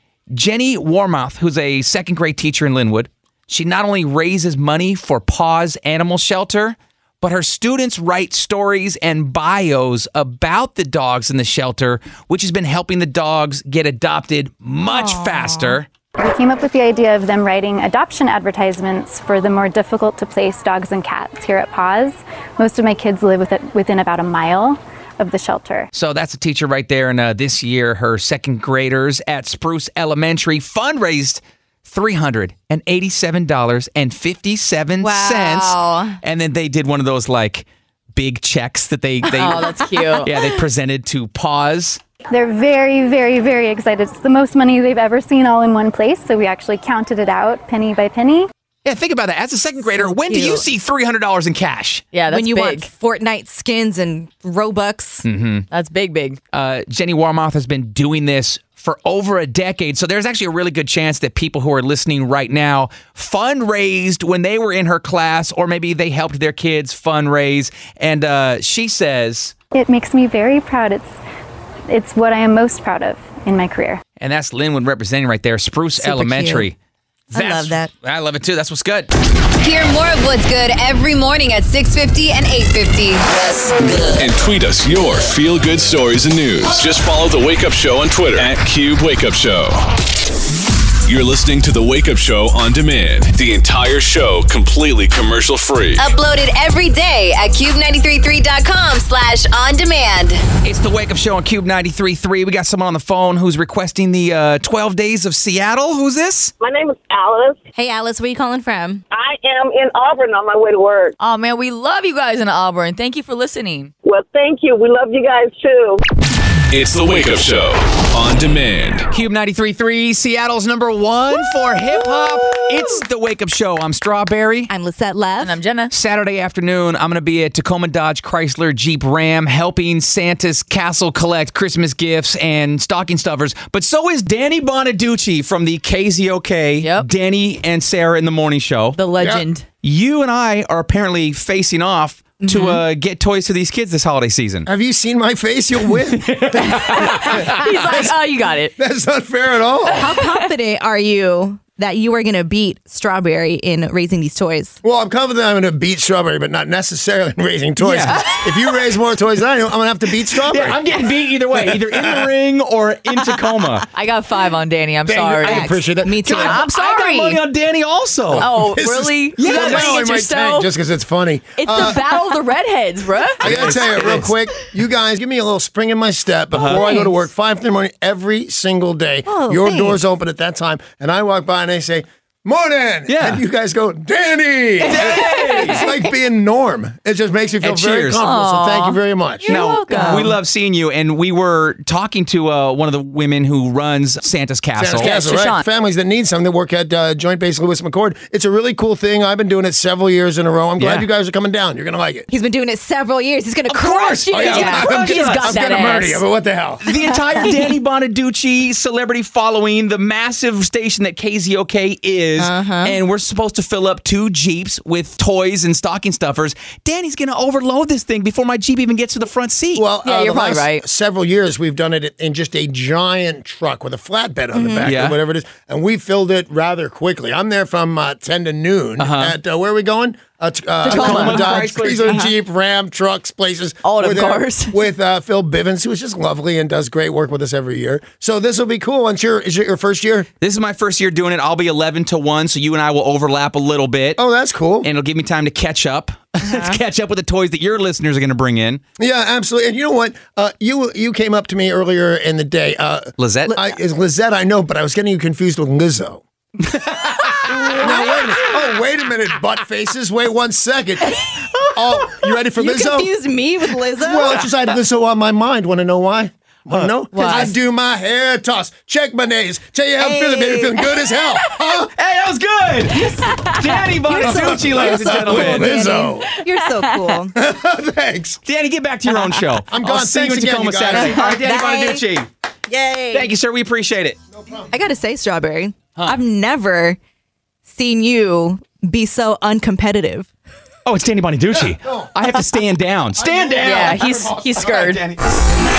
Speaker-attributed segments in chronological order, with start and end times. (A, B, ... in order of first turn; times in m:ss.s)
0:00.3-0:15.9 A
0:14.8-0:15.8 B
0:16.2-0:25.9 C
0:25.9-0:42.0 A
0:35.0-0:36.2 B
0:39.2-0:40.4 D
0:42.3-0:48.5 C
0:48.8-0:52.0 A
0:50.0-0:50.7 B
0:52.1-0:52.9 D
0:52.3-0:55.2 B
0:55.2-0:55.6 A
0:55.7-0:56.4 D
0:56.5-1:09.6 A
1:09.7-1:11.2 C
1:11.9-1:14.0 C
1:14.2-1:16.8 A
1:16.0-1:16.7 B
1:17.3-1:17.9 B
1:17.3-1:19.1 A
1:19.6-1:23.7 E
1:24.1-1:29.8 F
1:31.1-1:36.1 F
1:36.0-1:40.4 E
1:40.6-1:46.5 A
1:46.6-1:47.6 G
1:47.8-1:49.0 B
1:49.1-1:51.1 G
1:51.2-1:53.9 D
1:54.0-1:56.0 G
1:56.7-1:59.1 F
1:59.1-2:04.7 A
2:04.7-2:05.6 B
2:05.4-2:05.9 D
2:05.9-2:19.0 A
2:16.8-2:17.1 D
2:19.0-2:19.7 D
2:19.2-2:19.4 H
2:19.8-2:24.7 A
2:22.5-2:22.8 B
2:22.5-2:22.8 D
2:24.7-2:30.1 H
2:26.3-2:27.2 A
2:26.8-2:28.7 D
2:29.9-2:34.8 B
2:34.8-2:40.8 H
2:37.8-2:38.4 A
2:40.4-2:43.9 A
2:41.5-2:42.3 H
2:43.9-2:45.7 D
2:45.1-2:46.5 H
2:45.5-2:46.7 B
2:46.2-2:50.2 A
2:46.4-2:47.4 D
2:48.3-2:52.0 H
2:48.3-2:50.7 D
2:51.6-2:54.0 D
2:53.4-2:54.3 A
2:53.4-3:09.5 H
2:56.5-2:57.1 A
2:56.8-2:57.1 B
2:59.3-3:00.0 B
3:03.1-3:03.4 A
3:04.8-3:06.0 A
3:05.0-3:05.9 B
3:07.6-3:08.3 A
3:08.2-3:10.3 D
3:09.5-3:15.2 A
3:09.5-3:10.4 B
3:14.8-3:22.3 H
3:15.0-3:15.7 D
3:20.8-3:21.1 A
3:22.3-3:25.0 B
3:23.7-3:25.8 A
3:24.3-3:26.8 H
3:24.4-3:26.2 D
3:26.8-3:39.9 A
3:26.9-3:27.7 B
3:32.4-3:33.0 B
3:39.8-4:00.3 H
3:40.0-3:40.8 D
3:44.5-3:45.0 B
3:44.8-3:45.2 A
3:49.0-3:49.4 A
3:50.8-3:52.3 B
3:50.8-3:52.3 A
3:50.9-3:51.3 D
3:53.8-3:54.8 D
4:00.4-4:04.2 A
4:04.2-4:04.9 H
4:04.8-4:08.8 A
4:06.4-4:06.8 B
4:09.0-4:16.2 H
4:13.2-4:13.5 A
4:13.5-4:13.8 B
4:16.7-4:18.5 A
4:17.5-4:21.1 H
4:21.3-4:24.4 B
4:21.8-4:23.1 H
4:24.0-4:31.9 H
4:27.1-4:27.6 B
4:27.1-4:27.5 D
4:30.0-4:31.2 B
4:31.9-4:35.9 A
4:32.9-4:37.4 B
4:34.2-4:36.3 H
4:37.3-4:38.4 H
4:38.4-4:42.3 A
4:39.1-4:39.4 B
4:39.7-4:41.3 H
4:40.9-4:42.1 B
4:42.7-4:43.3 B
4:43.1-4:44.2 A
4:44.3-4:44.7 H
4:44.7-4:47.0 B
4:47.6-4:50.3 B
4:50.8-4:55.2 A
4:51.5-4:52.1 H
4:53.2-4:54.5 H
4:53.6-4:55.0 D